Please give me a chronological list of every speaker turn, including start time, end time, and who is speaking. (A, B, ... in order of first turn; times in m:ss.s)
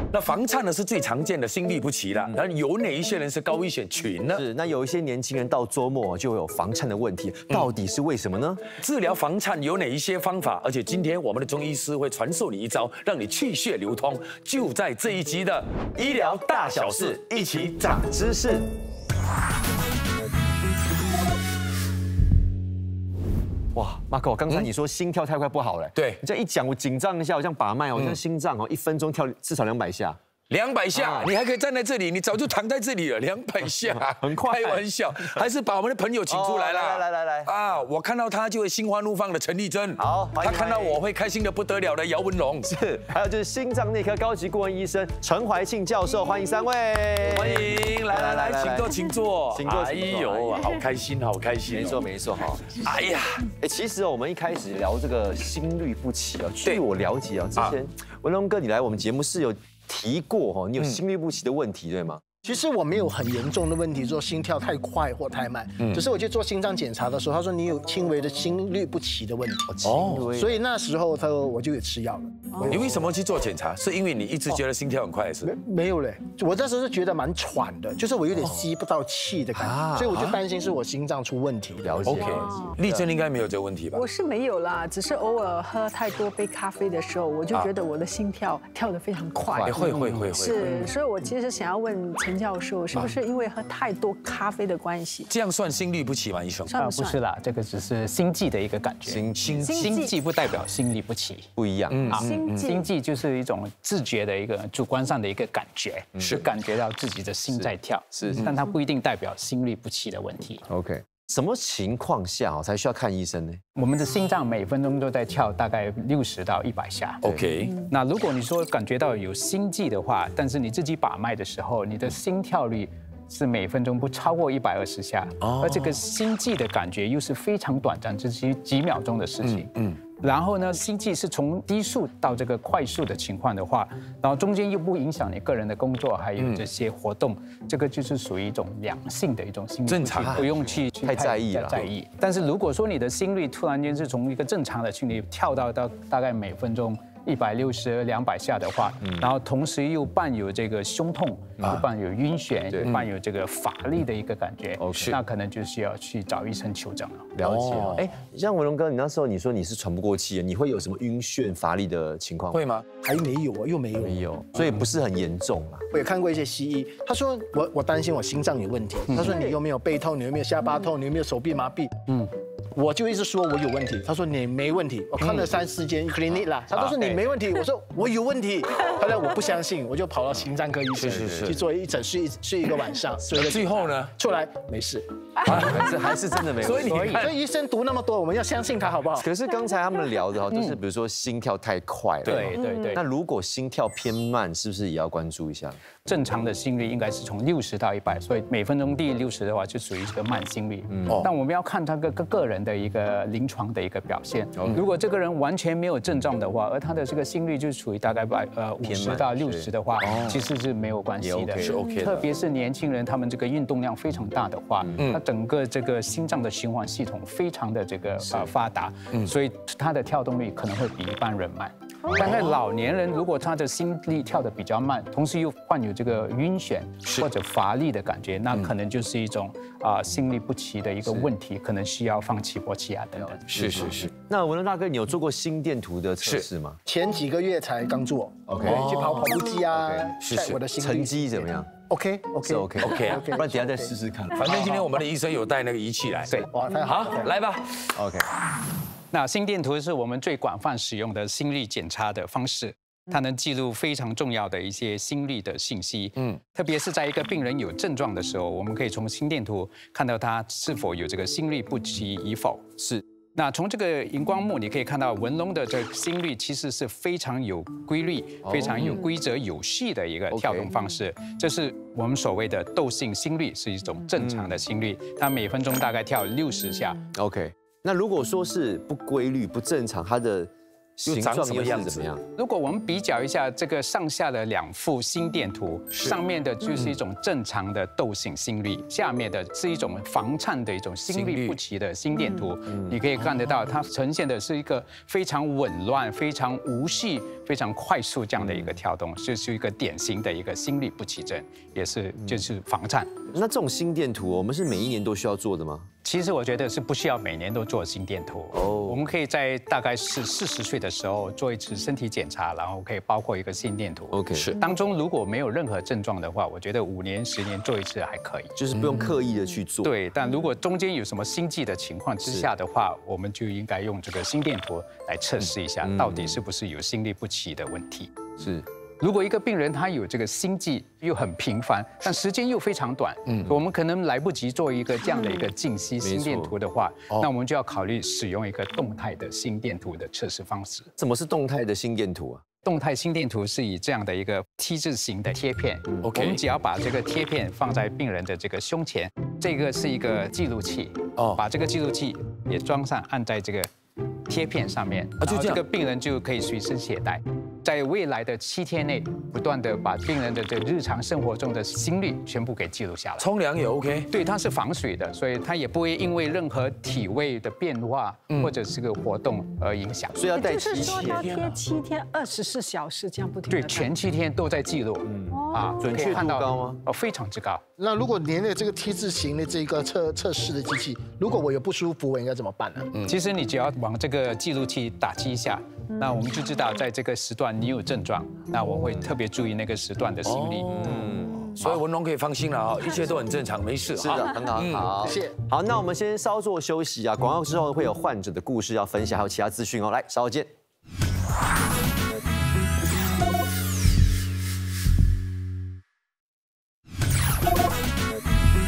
0:00.1-0:04.4 A
0:04.3-0:08.7 B
0:08.8-0:17.8 A
0:16.0-0:18.7 B
0:23.7-0:30.2 B
0:30.5-0:42.8 A
0:30.9-0:31.3 B
0:33.8-0:35.5 B
0:36.3-0:37.6 B
0:40.0-0:41.0 B
0:42.6-0:48.9 B
0:47.3-0:52.0 A
0:49.5-0:50.7 B
0:51.7-0:52.8 B
0:52.7-0:53.5 A
0:53.6-1:02.2 B
1:02.4-1:12.9 C
1:09.8-1:10.6 B
1:09.8-1:10.3 A
1:12.6-1:15.5 A
1:15.4-1:21.9 C
1:19.6-1:20.2 B
1:21.8-1:23.0 B
1:22.0-1:24.0 A
1:22.2-1:22.8 D
1:23.9-1:35.3 D
1:29.4-1:30.6 B
1:29.6-1:30.9 A
1:29.8-1:30.9 E
1:32.9-1:33.2 A
1:35.3-1:36.7 A
1:36.7-1:37.2 D
1:36.8-1:39.2 E
1:39.0-1:39.8 B
1:39.4-1:39.9 A
1:39.6-1:40.2 D
1:39.8-1:41.5 E
1:41.6-1:42.2 B
1:41.9-1:42.7 A
1:42.1-1:50.6 E
1:42.2-1:42.9 D
1:46.2-1:46.4 B
1:47.5-1:48.4 B
1:50.7-1:53.6 B
1:53.8-1:57.2 E
1:57.2-1:57.8 A
1:57.9-2:37.3 E
2:05.4-2:06.0 A
2:09.4-2:10.0 A
2:16.4-2:16.6 A
2:19.9-2:20.5 A
2:20.2-2:20.5 B
2:21.0-2:21.9 B
2:32.7-2:33.0 B
2:34.8-2:35.2 B
2:37.4-2:42.6 B
2:37.4-2:38.0 A
2:42.5-2:42.9 A
2:43.0-2:44.2 C
2:44.0-2:45.9 B
2:45.9-2:52.0 C
2:49.2-2:49.6 B
2:52.7-3:05.1 C
2:56.8-2:57.1 A
3:01.0-3:01.6 A
3:01.1-3:01.5 B
3:03.3-3:04.1 A
3:05.4-3:06.0 A
3:05.5-3:07.3 B
3:06.6-3:07.3 A
3:06.8-3:07.2 E
3:07.2-3:09.3 C
3:09.2-3:15.8 B
3:12.2-3:12.5 A
3:12.3-3:13.0 E
3:12.6-3:13.0 D
3:16.1-3:53.9 E
3:20.9-3:21.2 B
3:24.6-3:24.8 B
3:28.8-3:30.4 B
3:30.0-3:30.4 A
3:31.2-3:31.8 B
3:31.6-3:32.3 A
3:31.8-3:32.1 D
3:42.1-3:42.6 A
3:51.0-3:51.3 B
3:53.2-3:56.8 B
3:53.5-3:54.1 A
3:56.9-4:03.9 C
3:58.5-3:59.0 B
3:58.6-3:59.3 A
3:59.7-4:00.2 B
4:00.2-4:00.6 A
4:00.8-4:01.7 B
4:02.4-4:04.9 B
4:02.8-4:03.3 A
4:04.4-4:07.9 A
4:06.3-4:07.4 C
4:07.9-4:08.3 B
4:09.1-4:37.0 E
4:28.4-4:29.0 B
4:30.3-4:30.7 B
4:34.2-4:34.6 B
4:37.1-4:42.2 B
4:41.1-4:42.1 A
4:42.4-5:03.2 E
4:51.1-4:51.6 A
4:52.7-4:53.0 B
4:53.2-4:53.5 A
5:03.3-5:05.9 B
5:06.0-5:18.6 E
5:08.5-5:09.0 B
5:14.1-5:14.5 B
5:14.3-5:14.6 A
5:18.6-5:19.9 B
5:18.8-5:19.1 A
5:19.8-5:28.1 E
5:22.2-5:22.5 B
5:25.8-5:26.4 B
5:28.4-5:28.7 B
5:29.0-5:40.9 E
5:35.2-5:35.4 D
5:36.0-5:36.5 B
5:41.0-5:42.4 B
5:42.6-5:53.7 E
5:46.0-5:46.4 A
5:51.2-5:51.4 A
5:54.3-6:03.3 E
5:55.2-5:55.6 A
6:03.2-6:04.1 A
6:04.1-6:10.2 E
6:10.1-6:11.3 B
6:10.3-6:14.0 D
6:10.9-6:11.6 A
6:13.5-6:17.6 E
6:15.0-6:16.8 B
6:15.3-6:16.1 D
6:17.8-6:22.9 C
6:22.9-6:23.2 A
6:23.0-6:30.9 E
6:30.2-6:31.0 A
6:30.7-6:31.8 B
6:31.6-6:35.1 A
6:34.0-6:40.5 B